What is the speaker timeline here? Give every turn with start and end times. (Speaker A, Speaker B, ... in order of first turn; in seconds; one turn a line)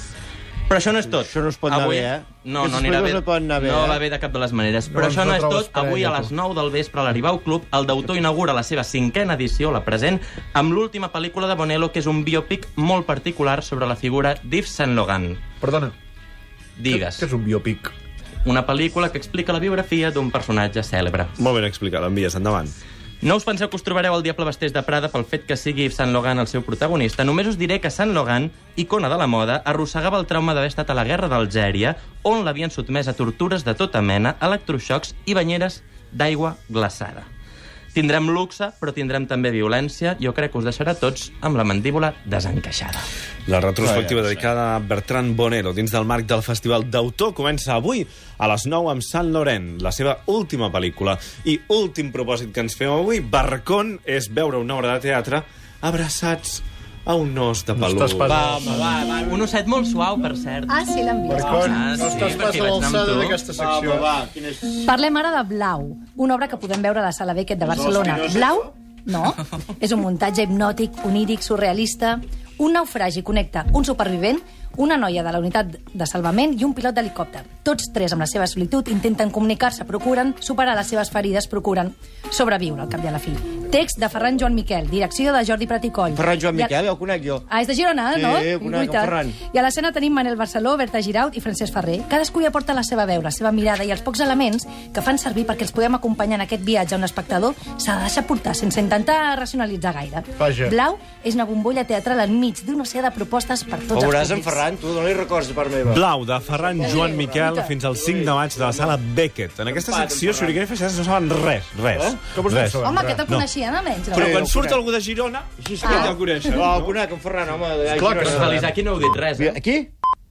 Speaker A: 0.7-15.4
Speaker B: 1.1-4.0
Speaker C: 4.9-6.3
Speaker C: 15.6-15.9
Speaker A: 16.8-17.2
Speaker C: 16.9-17.9
Speaker A: 18.4-21.3
Speaker D: 21.4-22.7
Speaker A: 23.2-37.2
Speaker A: 37.9-43.0
Speaker D: 43.5-58.5
Speaker B: 43.8-44.5
Speaker C: 57.8-59.0
Speaker B: 58.2-59.5
Speaker A: 59.2-60.8
Speaker E: 60.7-61.8
Speaker C: 61.3-64.1
Speaker A: 61.4-63.4
Speaker B: 63.5-64.8
Speaker E: 64.8-86.7
Speaker B: 67.6-68.7
Speaker B: 86.1-87.4
Speaker E: 87.5-104.6
Speaker B: 88.1-89.4
Speaker C: 100.4-100.8
Speaker B: 103.9-109.0
Speaker D: 105.9-113.5
Speaker E: 106.8-107.7
Speaker B: 109.6-110.6
Speaker B: 111.9-112.2
Speaker C: 112.2-113.2
Speaker E: 112.8-114.4
Speaker D: 114.1-117.0
Speaker B: 114.2-114.8
Speaker B: 115.6-118.7
Speaker E: 115.8-116.6
Speaker C: 117.9-118.7
Speaker A: 118.1-119.6
Speaker B: 119.4-119.9